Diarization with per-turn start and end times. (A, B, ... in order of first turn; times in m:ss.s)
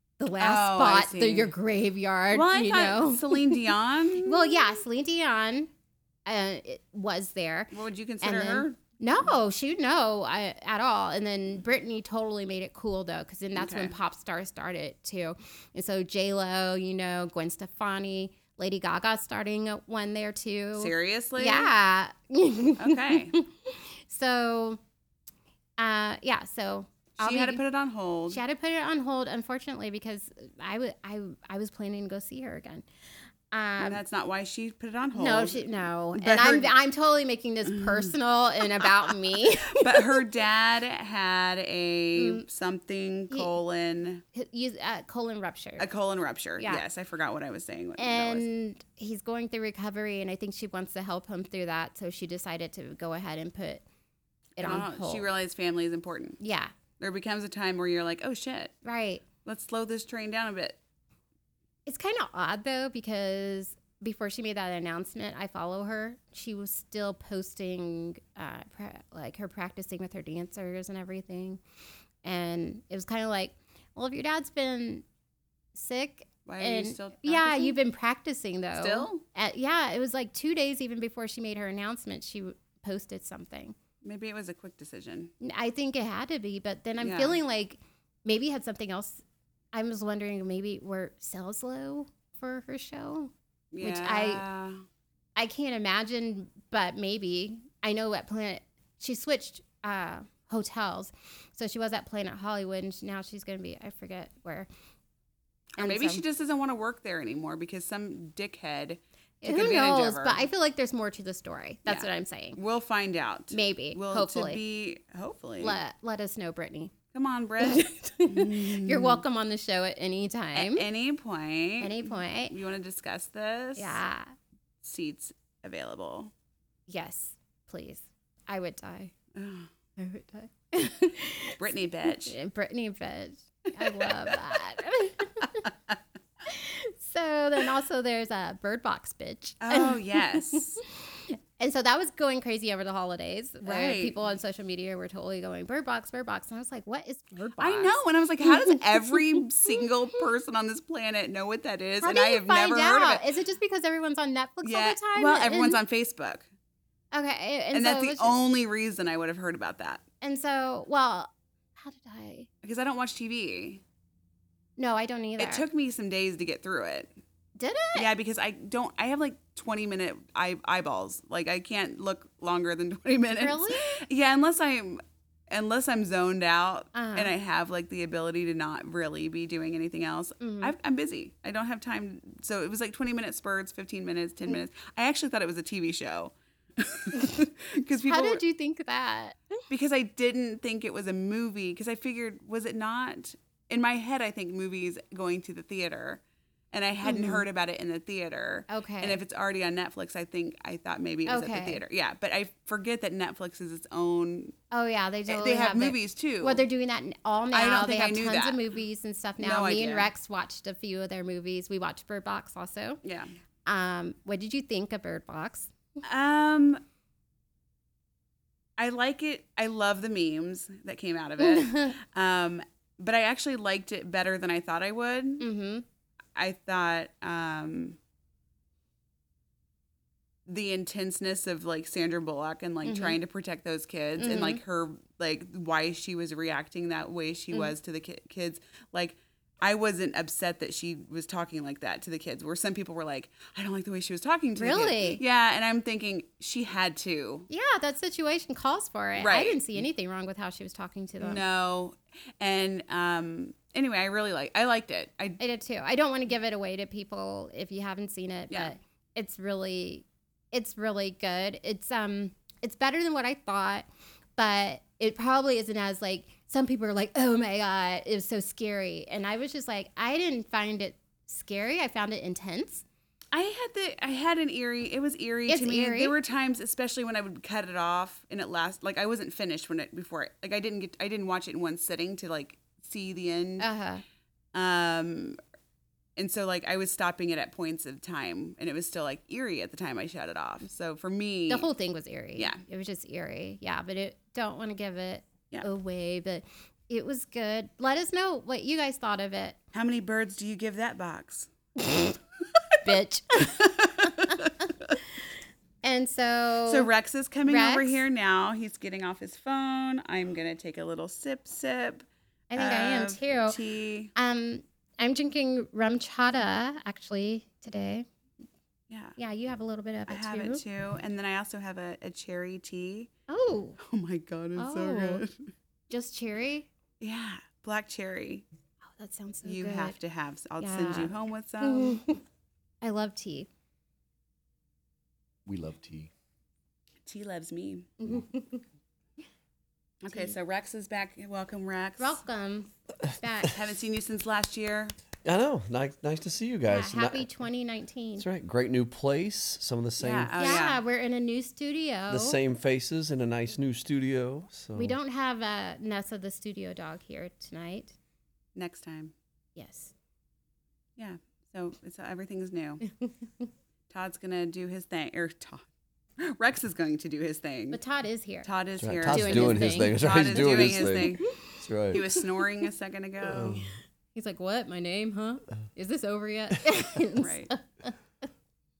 0:00.2-0:03.6 A
0:00.4-0:01.5 B
0:02.3-0:04.8 B
0:04.2-0:05.7 A
0:06.2-0:24.8 A
0:07.7-0:08.8 B
0:13.5-0:13.9 B
0:20.8-0:21.7 B
0:22.8-0:23.4 B
0:25.8-0:27.6 A
0:27.2-0:28.4 B
0:28.3-0:32.8 A
0:33.5-0:34.0 A
0:33.8-0:35.6 B
0:35.1-0:40.2 A
0:36.1-0:36.7 B
0:37.7-0:38.1 B
0:39.7-0:44.2 B
0:42.2-0:42.4 A
0:44.3-0:45.9 A
0:45.8-0:48.4 B
0:46.6-0:46.8 A
0:48.0-0:53.8 A
0:54.6-0:55.3 A
0:54.6-0:56.4 B
0:56.4-0:56.7 A
0:57.0-0:58.7 B
0:58.8-0:59.2 A
0:59.4-1:00.8 B
1:01.9-1:11.6 A
1:12.2-1:15.0 A
1:15.7-1:23.8 A
1:16.4-1:17.8 B
1:18.7-1:19.2 B
1:24.0-1:25.3 B
1:25.4-1:34.4 A
1:27.0-1:27.4 B
1:33.7-1:34.8 B
1:35.4-1:44.7 A
1:45.8-1:46.2 A
1:45.8-1:50.4 B
1:49.4-1:52.6 A
1:51.8-1:55.8 B
1:53.5-1:54.6 A
1:55.6-1:56.9 A
1:57.1-1:59.2 B
1:57.6-2:00.8 A
2:00.5-2:04.0 B
2:01.8-2:02.6 A
2:03.8-2:04.3 A
2:04.8-2:06.3 B
2:06.9-2:09.1 A
2:09.3-2:09.7 B
2:10.0-2:15.7 A
2:11.6-2:12.3 B
2:13.8-2:14.4 B
2:16.4-2:29.2 A
2:19.6-2:20.8 B
2:23.6-2:24.2 B
2:27.6-2:33.2 B
2:32.0-2:35.8 A
2:34.6-2:36.5 B
2:37.1-2:38.4 A
2:37.7-2:40.0 B
2:40.2-2:42.5 A
2:42.6-2:43.8 B
2:44.8-2:45.6 A
2:45.4-2:47.1 B
2:47.6-2:48.1 A
2:47.9-3:08.4 B
2:53.4-2:54.0 A
2:56.9-2:57.3 A
3:00.4-3:00.7 A
3:08.1-3:09.6 A
3:09.7-3:24.5 B
3:17.0-3:17.4 A
3:18.7-3:19.2 A
3:21.2-3:21.8 A
3:24.7-3:33.0 A
3:25.3-3:26.6 B
3:27.5-3:28.6 B
3:29.4-3:30.1 B
3:33.0-3:33.3 B
3:33.6-3:35.7 A
3:36.0-3:36.8 B
3:38.8-3:45.4 B
3:41.4-3:42.0 A
3:45.4-3:45.8 A
3:46.3-3:48.0 B
3:50.4-4:07.5 B
3:52.8-3:53.2 A
3:54.2-3:54.6 A
4:04.6-4:05.2 A
4:07.5-4:11.4 A
4:09.2-4:09.6 B
4:11.2-4:15.4 B
4:15.4-4:32.8 A
4:33.3-4:43.7 B
4:35.5-4:36.2 A
4:43.6-4:44.0 A
4:44.5-4:45.4 B
4:46.2-4:51.7 B
4:51.5-4:59.6 A
4:59.7-5:01.5 B
5:02.8-5:04.5 A
5:05.8-5:06.9 A
5:06.6-5:14.1 B
5:07.4-5:08.0 A
5:12.5-5:13.6 A
5:14.1-5:18.1 A
5:18.9-5:19.2 B
5:19.2-5:20.6 A
5:20.1-5:23.1 B
5:23.3-5:23.8 A
5:23.8-5:25.3 B
5:24.6-5:25.2 A
5:25.9-5:26.7 A
5:27.0-5:28.4 B
5:29.0-5:30.0 A
5:29.4-5:32.0 B
5:30.6-5:32.2 A
5:32.8-5:33.5 A
5:35.4-5:36.1 C
5:37.0-5:37.9 B
5:38.0-5:38.6 A
5:40.0-5:42.2 B
5:42.0-5:43.6 A
5:43.5-5:44.9 B
5:45.2-5:47.3 C
5:46.7-5:48.2 A
5:48.2-5:50.6 C
5:50.0-5:50.8 B
5:50.4-5:52.4 A
5:52.1-5:55.0 C
5:54.7-5:57.9 A
5:58.5-5:59.1 B
5:59.6-5:59.9 A
6:01.0-6:02.8 B
6:03.9-6:05.7 B
6:06.2-6:07.8 B
6:07.7-6:08.5 A
6:08.4-6:11.2 B
6:08.8-6:12.0 C
6:09.0-6:11.3 A
6:11.9-6:13.6 B
6:13.2-6:13.7 C
6:14.1-6:17.9 A
6:17.2-6:17.5 B